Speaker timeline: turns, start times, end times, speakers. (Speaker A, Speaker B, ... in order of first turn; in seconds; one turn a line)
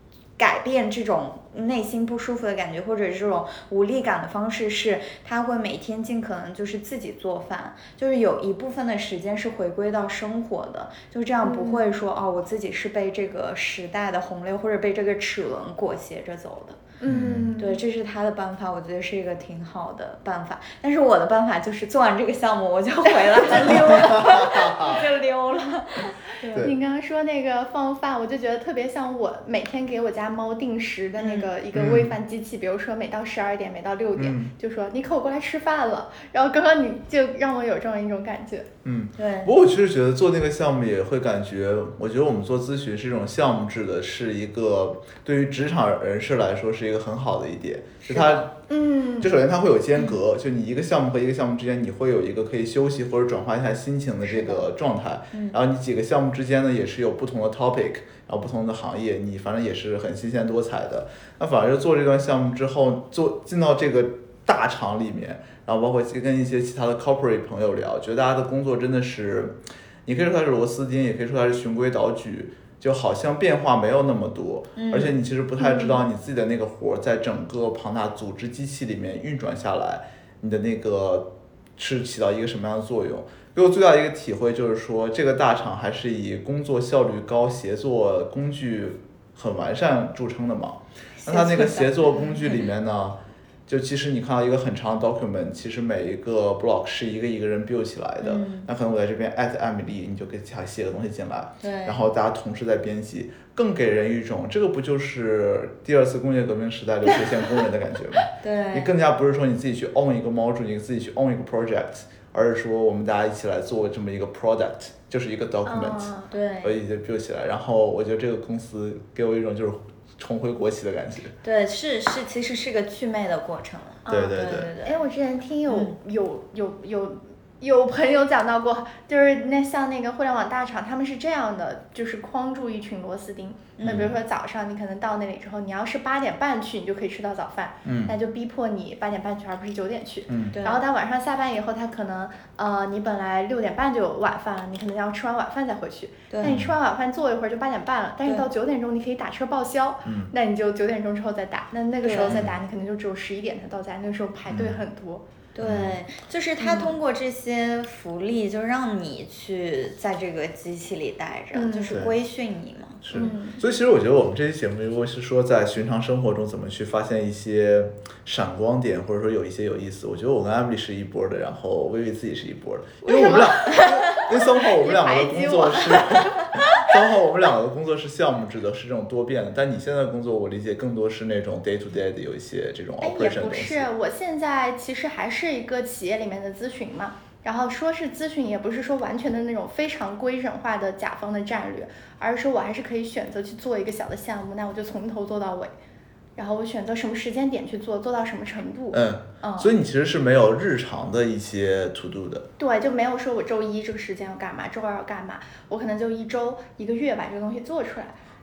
Speaker A: 0.4-16.8
Speaker B: 11.4-12.0
Speaker B: 17.0-17.8
Speaker C: 17.1-17.5
Speaker A: 17.6-26.2
Speaker B: 23.2-24.2
Speaker C: 23.7-25.0
Speaker B: 26.4-38.7
Speaker A: 31.2-31.5
Speaker C: 31.7-32.1
Speaker C: 34.2-34.5
Speaker C: 38.8-48.5
Speaker A: 39.2-39.5
Speaker A: 48.0-48.5
Speaker B: 48.7-49.3
Speaker C: 49.2-121.3
Speaker A: 55.3-55.6
Speaker A: 74.8-75.2
Speaker B: 75.6-75.9
Speaker A: 91.2-92.6
Speaker A: 98.2-98.7
Speaker A: 101.6-102.0
Speaker A: 108.4-108.9
Speaker B: 115.7-116.3
Speaker A: 116.3-116.8
Speaker A: 121.4-125.0
Speaker B: 124.1-155.2
Speaker C: 124.1-124.7
Speaker A: 125.7-126.0
Speaker A: 133.8-134.1
Speaker C: 133.8-134.1
Speaker C: 137.8-138.1
Speaker C: 140.3-140.6
Speaker A: 140.5-140.8
Speaker A: 146.3-146.6
Speaker C: 146.5-146.7
Speaker C: 150.1-150.3
Speaker A: 152.0-152.4
Speaker C: 154.5-154.8
Speaker A: 155.6-163.3
Speaker C: 155.6-156.0
Speaker B: 156.6-156.9
Speaker B: 161.5-162.0
Speaker C: 163.0-183.9
Speaker B: 163.1-163.6
Speaker B: 173.1-176.4
Speaker A: 173.1-173.9
Speaker B: 183.0-195.7
Speaker B: 196.4-199.7
Speaker C: 198.9-202.5
Speaker B: 202.6-208.2